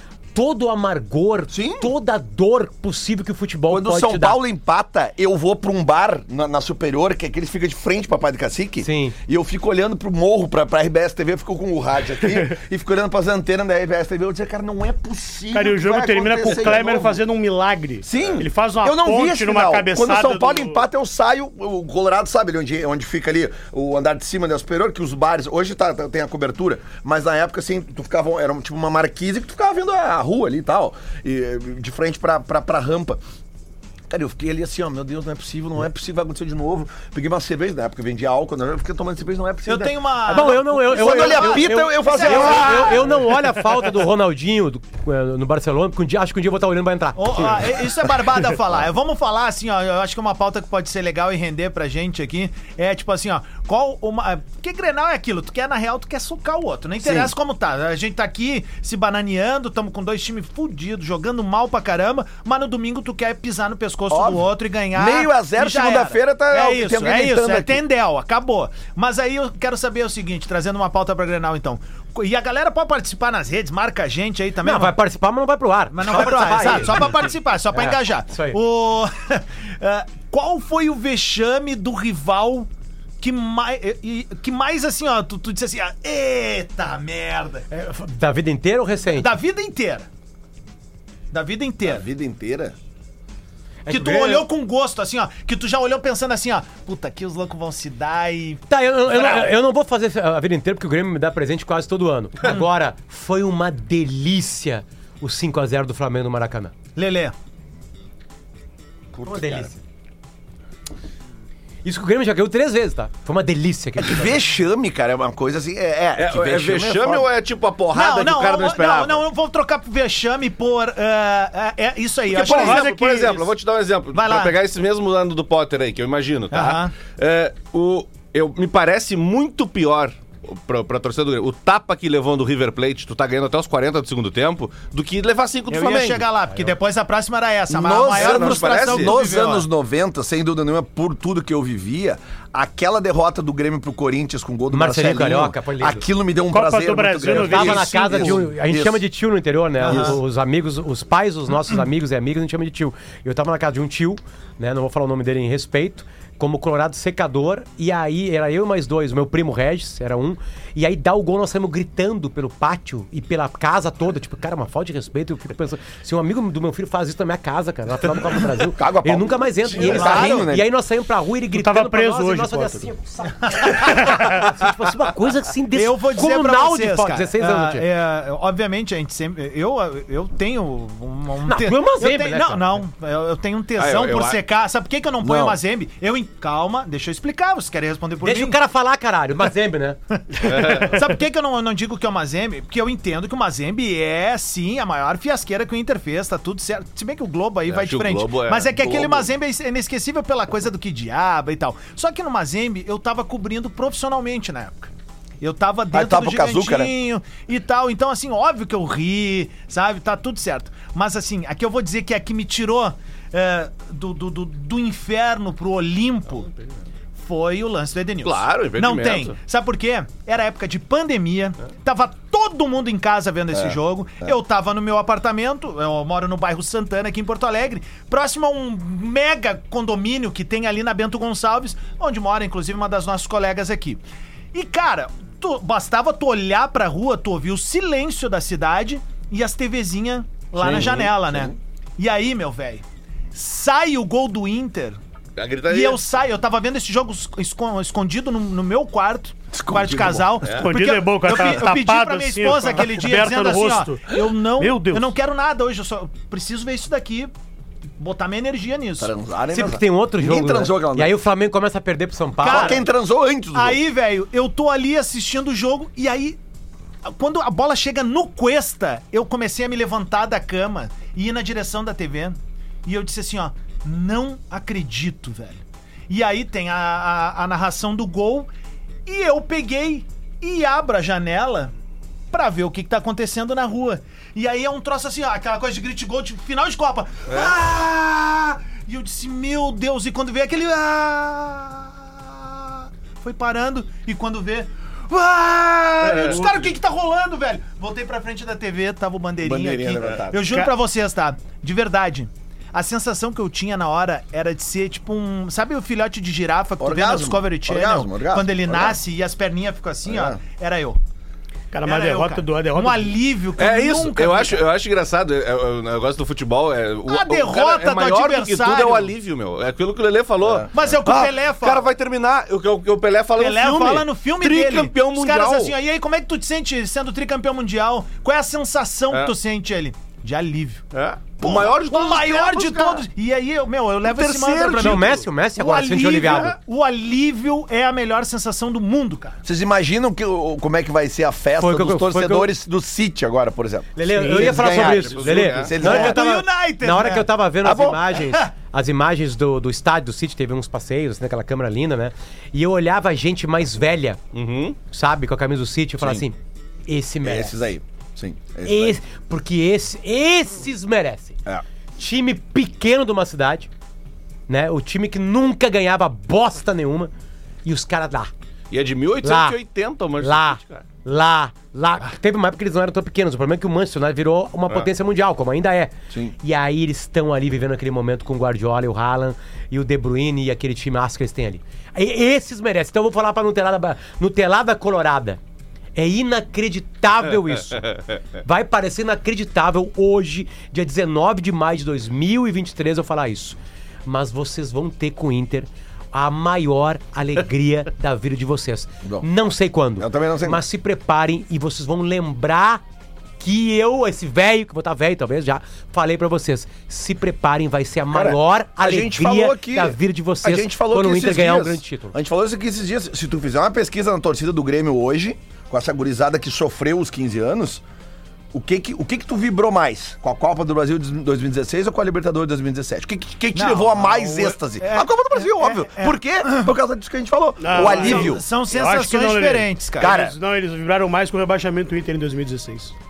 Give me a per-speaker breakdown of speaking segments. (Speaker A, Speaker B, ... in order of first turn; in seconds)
Speaker A: 0.3-4.4, 8.8-9.2, 40.3-47.6, 74.6-77.2, 77.7-78.6, 87.7-89.3, 93.8-94.5, 98.7-106.7, 109.2-109.8, 111.8-114.4, 144.7-146.0, 147.3-177.8, 181.4-182.8, 188.2-190.0, 259.5-262.8, 334.8-336.5, 341.6-342.5, 343.9-354.2, 354.9-356.4, 356.9-357.6, 358.6-361.4, 362.0-363.7, 364.5-367.1, 367.6-368.3, 369.2-369.6, 370.2-385.4, 385.9-387.9, 388.4-402.8, 403.4-412.1
Speaker B: 1.5-1.9, 3.7-17.2, 18.0-33.2, 34.1-43.1, 57.0-57.3, 64.1-67.8, 91.8-92.7, 114.0-117.3, 137.7-149.0, 149.8-150.2, 168.6-170.7, 185.2-185.6, 198.9-199.2, 205.9-206.9, 223.5-224.3, 240.6-241.6, 249.5-250.4, 259.0-261.1, 262.4-263.8, 299.4-300.7, 306.8-309.0, 310.1-310.4, 320.4-320.7, 331.4-331.7, 334.0-335.1, 339.4-346.2, 347.6-348.1, 356.0-356.2, 357.2-359.0, 400.0-400.6, 408.1-417.8, 418.5-428.4, 430.0-430.4
Speaker C: 15.5-20.8, 122.5-123.4, 146.5-148.4, 171.5-172.9, 250.6-255.1, 311.7-313.1, 427.6-432.9
Speaker D: 39.6-43.0, 47.1-75.0, 75.9-82.7, 83.2-87.7, 89.1-90.1, 91.3-92.0, 93.9-99.5, 107.0-107.3, 117.9-123.3, 124.1-124.5, 126.5-126.9, 135.7-139.7, 149.8-150.2, 169.8-170.5, 173.5-174.0, 175.7-188.6, 190.2-216.5, 217.2-234.0, 234.5-245.0, 245.7-257.3, 258.0-259.1, 262.4-262.9, 263.5-266.4, 267.0-278.5, 279.1-281.7, 282.3-311.0, 311.8-314.6, 317.1-319.1, 320.7-321.9, 323.4-330.8, 331.4-339.4, 345.8-347.3, 348.1-348.5, 423.5-426.7, 427.7-430.2
Speaker E: 109.2-109.7, 116.2-119.2, 122.3-136.2, 138.1-139.2, 183.8-184.4, 190.4-191.0, 197.7-199.1, 218.2-219.4, 240.6-241.0, 245.3-246.0, 250.4-250.7, 296.0-296.7, 313.6-325.7, 330.9-333.0, 344.6-345.7, 354.3-354.8, 368.7-370.8, 387.7-388.0